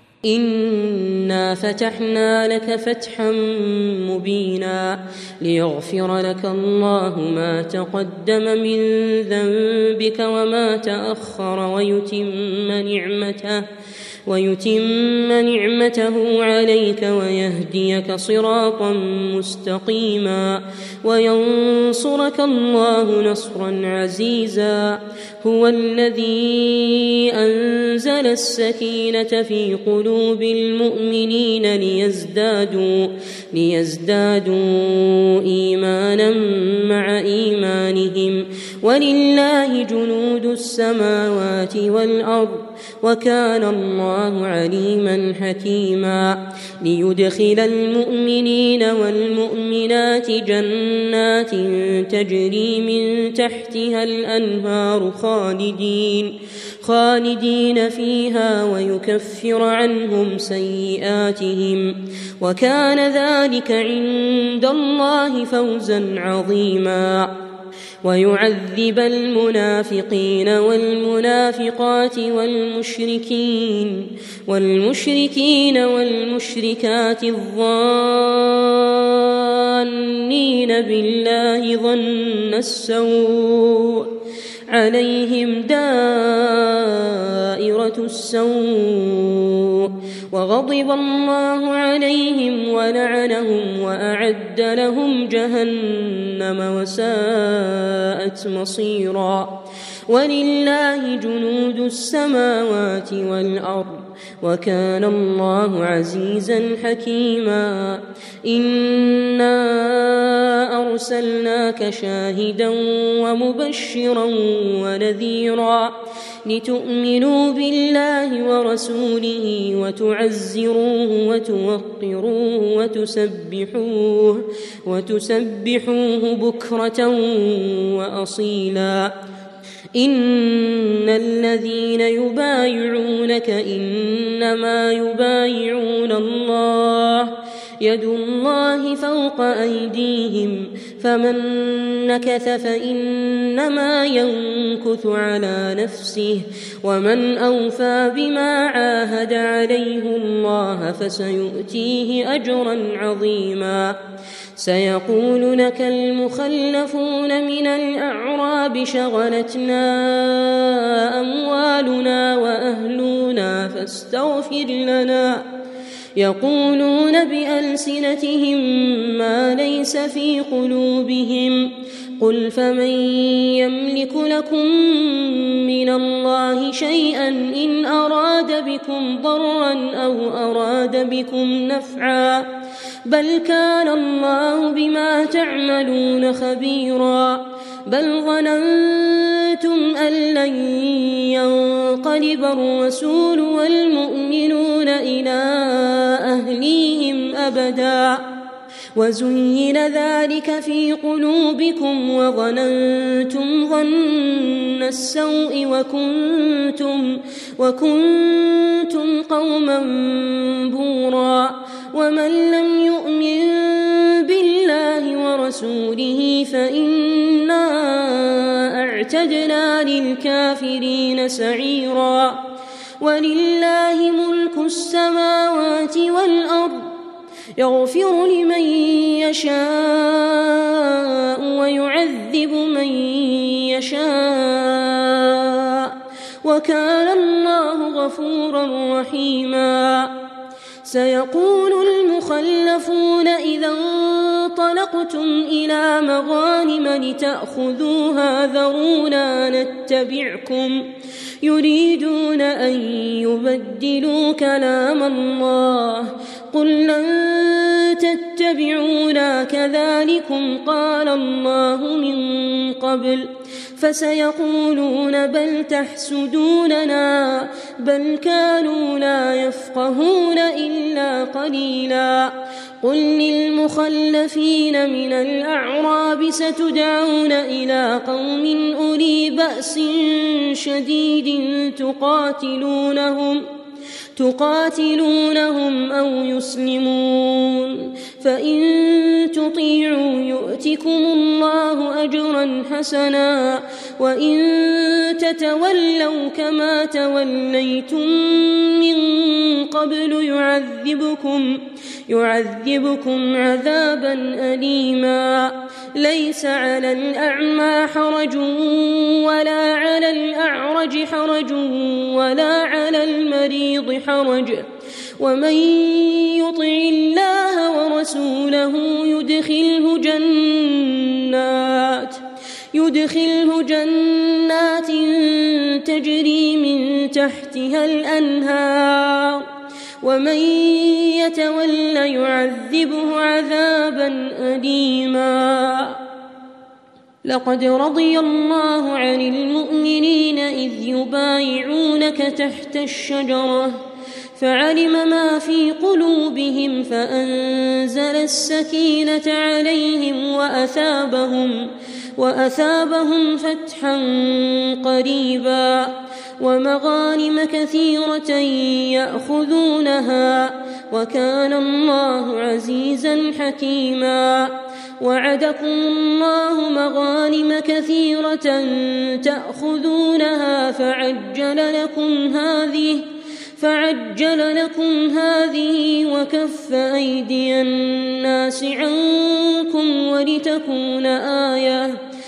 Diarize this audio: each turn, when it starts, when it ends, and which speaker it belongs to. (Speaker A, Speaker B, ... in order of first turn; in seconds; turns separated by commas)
Speaker A: 0.3-13.7, Speaker A: 14.3-67.3, Speaker A: 68.0-84.1, Speaker A: 84.7-129.1, Speaker A: 129.9-154.0, Speaker A: 154.6-165.4, Speaker A: 166.2-182.5, Speaker A: 183.1-198.3, Speaker A: 198.9-222.4, Speaker A: 223.0-226.9, Speaker A: 227.6-240.2, Speaker A: 240.8-250.8, Speaker A: 251.4-283.4, Speaker A: 284.2-314.7, Speaker A: 315.2-322.2, Speaker A: 322.7-329.5, Speaker A: 330.0-336.0, Speaker A: 337.2-343.8, Speaker A: 344.4-373.1, Speaker A: 373.6-382.0